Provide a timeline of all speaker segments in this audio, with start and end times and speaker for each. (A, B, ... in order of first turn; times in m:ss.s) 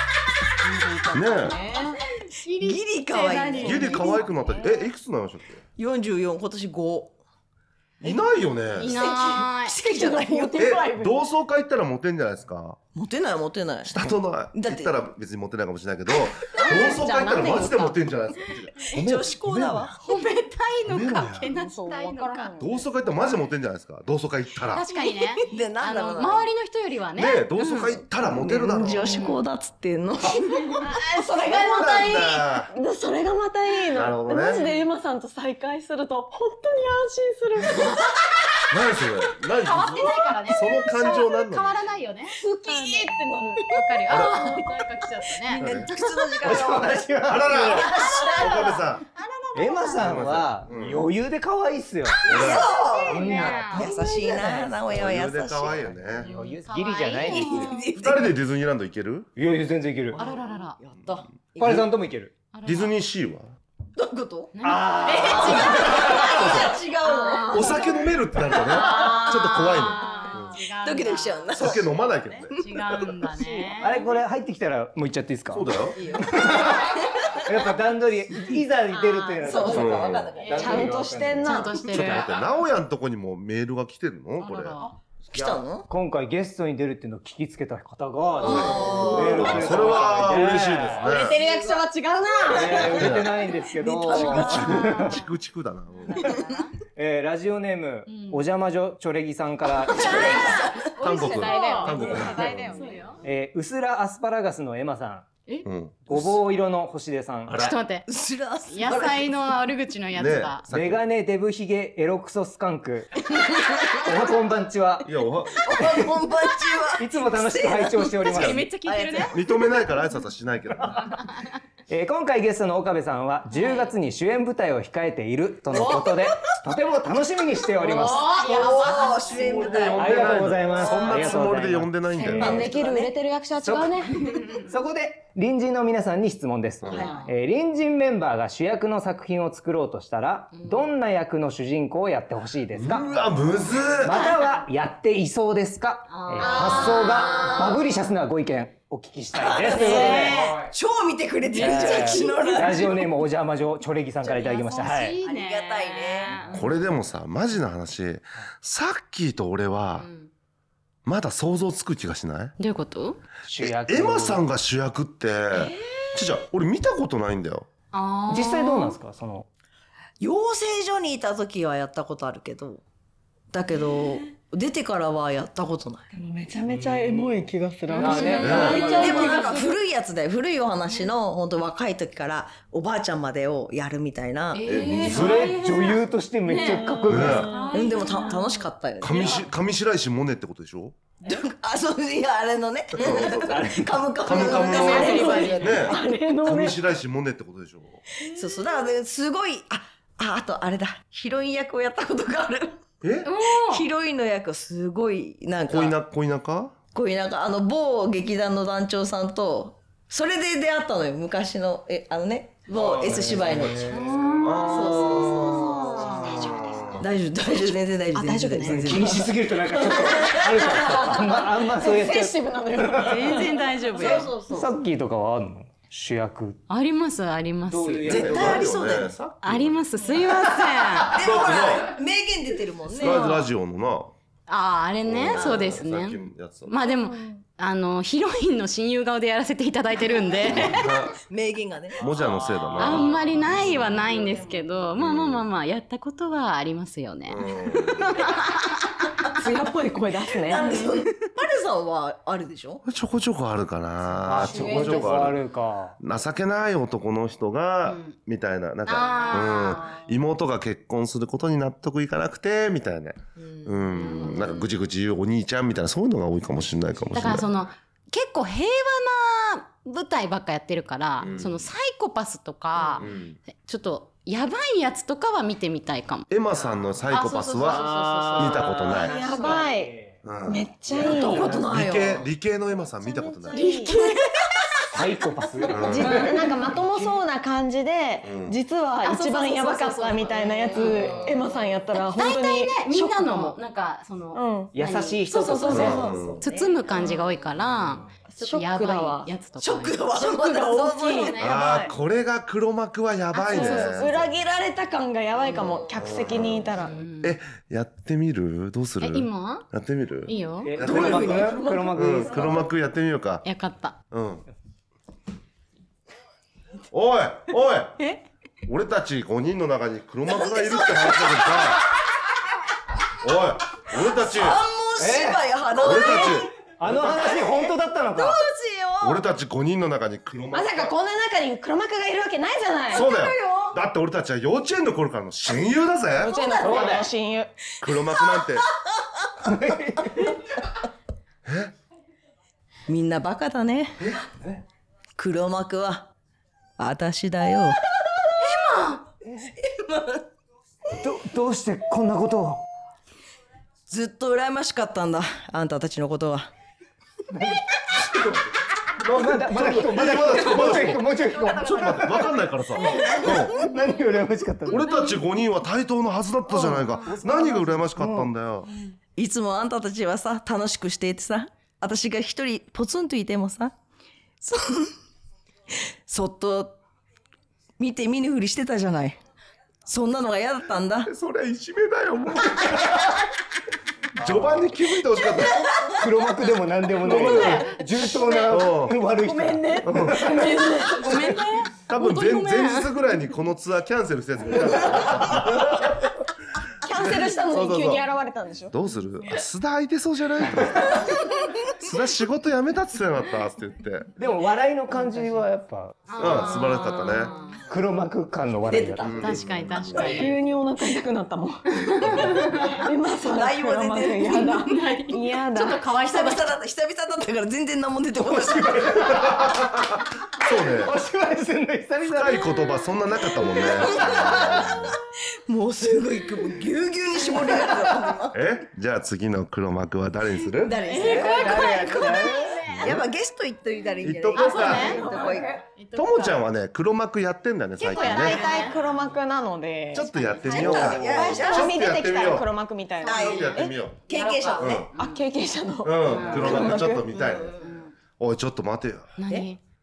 0:00.6-0:02.0 A
0:01.1-0:01.6 B
0:01.3-0:01.5 C
0:02.2-0:04.7 D
0:02.5-0:04.4 C
0:03.2-0:04.8 A
0:03.6-0:05.6 B
0:05.8-0:07.2 C
0:08.0-0:09.0 B
0:08.8-0:09.8 D
0:08.8-0:11.2 A
0:09.6-0:10.7 C
0:10.6-0:12.8 B
0:12.9-0:15.0 C
0:13.8-0:20.0 B
0:16.6-0:18.0 D
0:16.7-0:17.0 A
0:18.8-0:19.9 C
0:20.0-0:22.5 D
0:20.9-0:21.5 B
0:21.5-0:22.8 A
0:22.6-0:24.8 B
0:24.7-0:28.0 D
0:24.9-0:25.4 A
0:25.5-0:26.5 C
0:27.2-0:29.1 B
0:28.2-0:30.8 C
0:28.9-0:29.4 D
0:30.8-0:38.0 A
0:31.5-0:32.7 B
0:33.9-0:34.7 B
0:38.7-0:41.7 B
0:39.6-0:42.4 D
0:42.3-0:44.7 A
0:43.7-0:45.6 D
0:44.1-0:44.6 B
0:45.6-0:45.9 B
0:45.6-0:48.6 C
0:46.4-0:48.1 E
0:47.2-0:49.0 B
0:47.9-0:50.2 D
0:49.5-0:52.3 E
0:50.0-0:51.1 B
0:52.2-0:52.8 B
0:52.3-0:55.9 C
0:52.3-0:53.9 D
0:53.1-0:53.7 E
0:53.6-0:54.8 A
0:54.9-0:56.3 B
0:56.0-0:57.7 E
0:56.1-0:58.3 D
0:57.2-0:58.3 C
0:58.0-0:59.3 B
0:59.4-1:00.2 E
1:00.1-1:01.4 C
1:00.1-1:00.8 D
1:01.6-1:02.3 E
1:01.6-1:01.9 B
1:02.5-1:03.0 D
1:02.6-1:03.5 B
1:04.0-1:04.5 C
1:04.5-1:06.5 D
1:04.6-1:06.4 E
1:05.0-1:11.9 C
1:05.8-1:06.8 B
1:07.0-1:07.8 D
1:07.5-1:10.6 B
1:08.7-1:14.0 D
1:11.5-1:12.8 B
1:12.6-1:13.0 C
1:13.3-1:14.1 A
1:13.8-1:15.7 E
1:15.5-1:16.0 B
1:15.9-1:17.4 C
1:16.2-1:22.2 E
1:18.9-1:19.8 A
1:19.4-1:20.9 C
1:19.6-1:20.3 B
1:20.4-1:22.1 A
1:21.2-1:24.8 B
1:21.4-1:22.3 D
1:24.4-1:24.9 D
1:25.3-1:25.9 C
1:25.3-1:31.0 E
1:28.4-1:31.4 B
1:28.4-1:29.4 C
1:28.4-1:29.0 D
1:29.0-1:30.0 A
1:31.0-1:33.2 A
1:32.5-1:35.2 E
1:32.8-1:33.3 B
1:33.8-1:34.4 C
1:34.1-1:35.3 D
1:34.1-1:34.7 A
1:34.4-1:36.3 B
1:36.1-1:36.7 D
1:36.9-1:40.5 E
1:38.1-1:38.5 D
1:39.9-1:43.2 D
1:39.9-1:41.0 C
1:40.4-1:43.2 A
1:41.0-1:42.6 B
1:42.0-1:42.5 C
1:43.2-1:45.2 E
1:45.6-1:46.4 B
1:46.0-1:47.6 E
1:47.5-1:47.8 B
1:47.5-1:48.1 D
1:48.1-1:49.3 C
1:48.7-1:50.6 D
1:50.1-1:51.0 B
1:50.7-1:53.2 E
1:53.3-1:54.1 C
1:53.9-1:55.1 E
1:55.0-1:55.6 B
1:55.6-1:59.8 C
1:55.8-1:56.0 E
1:57.0-1:58.6 E
1:58.2-1:58.6 B
1:58.3-1:59.4 D
1:59.3-2:01.2 B
2:01.9-2:08.4 E
2:03.5-2:03.9 D
2:05.7-2:06.0 A
2:05.8-2:06.2 C
2:07.8-2:10.0 D
2:08.0-2:10.2 C
2:09.3-2:12.7 B
2:09.9-2:12.7 E
2:10.7-2:11.3 D
2:12.1-2:14.4 A
2:12.4-2:13.1 C
2:13.6-2:30.5 E
2:14.2-2:14.6 D
2:16.8-2:17.1 B
2:16.8-2:17.3 D
2:16.9-2:17.2 C
2:20.5-2:20.9 D
2:22.7-2:24.2 B
2:24.0-2:24.6 D
2:26.1-2:27.6 D
2:26.4-2:27.7 C
2:29.3-2:33.0 C
2:29.6-2:30.6 D
2:31.5-2:32.7 D
2:31.5-2:35.2 E
2:34.3-2:36.8 D
2:34.4-2:36.4 C
2:36.5-2:40.0 B
2:39.9-2:40.3 D
2:41.0-2:42.5 B
2:42.6-2:43.2 D
2:43.4-2:44.4 E
2:43.6-2:47.7 B
2:47.9-2:49.0 D
2:48.3-2:49.5 E
2:50.2-2:52.8 C
2:53.5-2:56.1 C
2:56.1-2:59.8 A
2:57.9-2:59.5 D
2:58.0-2:59.4 E
2:58.4-3:04.9 C
2:58.4-2:58.8 B
3:04.5-3:08.7 D
3:04.6-3:05.6 B
3:04.9-3:07.5 E
3:06.5-3:08.3 A
3:07.0-3:07.5 B
3:07.7-3:09.2 C
3:09.0-3:11.0 B
3:09.2-3:09.4 A
3:11.2-3:15.7 C
3:12.9-3:13.7 B
3:13.3-3:14.1 E
3:14.2-3:18.0 B
3:14.3-3:15.9 D
3:14.8-3:16.8 A
3:18.3-3:22.8 C
3:23.0-3:23.3 B
3:23.2-3:23.9 D
3:23.4-3:26.0 C
3:25.7-3:26.7 B
3:26.9-3:34.0 C
3:32.7-3:37.0 B
3:33.7-3:36.4 D
3:34.6-3:39.3 C
3:37.6-3:43.9 A
3:38.6-3:43.5 E
3:40.0-3:41.0 C
3:42.9-3:44.3 D
3:43.9-3:44.7 C
3:44.1-3:46.6 E
3:46.7-3:48.2 D
3:47.7-3:48.7 E
3:48.0-3:49.8 B
3:48.0-3:49.1 C
3:49.4-3:51.2 D
3:51.1-3:53.4 C
3:51.2-3:52.0 B
3:52.9-3:54.1 B
3:53.0-3:53.4 D
3:54.5-4:01.0 D
3:55.0-3:56.8 B
3:55.3-3:55.7 C
4:00.4-4:01.2 B
4:01.2-4:02.1 C
4:02.0-4:03.9 B
4:02.0-4:03.5 E
4:02.8-4:09.2 D
4:05.0-4:05.4 B
4:07.3-4:08.2 B
4:09.3-4:10.8 A
4:10.5-4:12.8 C
4:12.8-4:15.4 B
4:14.1-4:16.0 E
4:14.4-4:14.9 C
4:16.0-4:27.5 B
4:17.8-4:18.1 D
4:18.8-4:19.9 D
4:23.4-4:24.4 C
4:23.9-4:24.7 D
4:27.1-4:36.3 D
4:31.2-4:31.6 B
4:32.8-4:33.0 C
4:33.0-4:33.4 B
4:36.3-4:39.2 B
4:36.5-4:37.0 E
4:37.1-4:39.5 D
4:37.6-4:40.2 E
4:39.0-4:39.9 A
4:40.2-4:40.6 B
4:40.5-4:41.7 A
4:40.9-4:42.3 C
4:41.6-4:43.7 B
4:43.0-4:44.2 A
4:43.8-4:44.1 D
4:44.9-4:46.4 E
4:45.7-4:46.3 B
4:45.7-4:53.6 A
4:48.2-4:48.5 B
4:49.0-5:00.4 D
4:50.7-4:51.3 C
4:54.3-4:54.7 A
4:54.7-4:56.0 E
4:55.3-4:57.1 A
4:55.7-4:56.4 B
4:58.3-5:01.6 C
4:58.7-4:59.3 A
5:00.1-5:01.9 A
5:01.0-5:01.6 D
5:01.4-5:04.3 B
5:03.3-5:04.0 D
5:03.5-5:07.0 A
5:05.4-5:05.9 C
5:06.0-5:13.4 B
5:06.8-5:07.4 D
5:09.0-5:09.6 D
5:10.3-5:10.7 D
5:10.6-5:12.7 E
5:10.8-5:11.6 C
5:10.8-5:12.2 A
5:13.4-5:14.0 D
5:14.1-5:14.4 B
5:16.9-5:18.0 B
5:18.6-5:21.8 B
5:20.3-5:21.6 C
5:23.2-5:24.6 B
5:24.1-5:26.4 C
5:25.0-5:25.4 E
5:25.8-5:26.5 B
5:25.8-5:26.4 A
5:26.8-5:28.4 E
5:27.0-5:27.7 C
5:28.2-5:29.1 C
5:28.2-5:29.0 A
5:29.0-5:30.9 B
5:30.5-5:33.2 A
5:32.9-5:37.0 B
5:36.1-5:38.0 A
5:36.6-5:37.0 E
5:37.8-5:38.6 B
5:39.4-5:40.4 E
5:41.4-5:41.7 B
5:42.9-5:44.0 C
5:44.0-5:44.5 B
5:45.2-5:46.1 C
5:46.8-5:47.8 C
5:48.4-5:49.0 D
5:49.6-5:50.2 C
5:51.0-5:52.6 E
5:53.9-5:56.5 C
5:57.3-5:58.4 E
5:59.0-6:02.2 E
5:59.0-6:03.6 B
6:02.8-6:03.5 D
6:03.3-6:04.8 E
6:04.7-6:08.7 B
6:04.7-6:05.2 D
6:06.6-6:08.3 E
6:06.7-6:07.1 D
6:09.2-6:13.7 C
6:14.4-6:14.9 C
6:16.0-6:16.8 C
6:17.8-6:19.2 C
6:19.8-6:21.1 C
6:21.0-6:23.0 B
6:24.2-6:24.7 E
6:24.2-6:25.6 B
6:25.3-6:25.9 C
6:26.0-6:31.2 E
6:27.0-6:27.7 B
6:27.3-6:27.6 A
6:28.2-6:28.5 A
6:28.5-6:29.0 B
6:29.1-6:31.4 A
6:29.8-6:30.2 B
6:31.0-6:32.9 D
6:31.9-6:36.0 B
6:36.8-6:38.7 A
6:36.9-6:38.0 B
6:38.7-6:41.0 B
6:41.7-6:44.1 B
6:44.2-6:46.6 E
6:46.1-6:47.6 D
6:46.2-6:47.3 B
6:47.7-6:49.4 E
6:48.6-6:49.3 C
6:49.0-6:50.3 B
6:49.2-6:50.3 D
6:49.9-6:51.6 A
6:50.0-6:50.3 E
6:51.8-6:52.8 D
6:52.2-6:55.9 A
6:53.2-6:54.7 C
6:54.3-6:56.5 D
6:55.9-6:59.0 C
6:58.2-6:59.6 E
7:00.4-7:00.9 B
7:00.5-7:02.5 E
7:02.0-7:04.8 B
7:03.4-7:08.4 C
7:04.0-7:04.7 E
7:08.3-7:11.3 B
7:10.6-7:15.6 C
7:10.8-7:13.0 D
7:11.1-7:12.6 E
7:12.7-7:13.0 B
7:14.0-7:15.0 B
7:14.3-7:15.0 D
7:14.9-7:15.6 A
7:15.8-7:16.4 D
7:15.9-7:18.5 B
7:17.8-7:18.8 D
7:17.9-7:27.2 A
7:19.9-7:22.5 B
7:20.0-7:21.0 D
7:20.4-7:21.7 C
7:20.9-7:21.5 E
7:23.0-7:24.8 C
7:23.0-7:23.6 D
7:23.1-7:24.0 B
7:24.1-7:25.2 D
7:24.6-7:24.9 B
7:25.8-7:27.6 B
7:26.0-7:26.6 D
7:26.3-7:26.6 C
7:27.2-7:27.6 C
7:27.6-7:27.9 D
7:28.2-7:29.1 B
7:29.2-7:29.6 D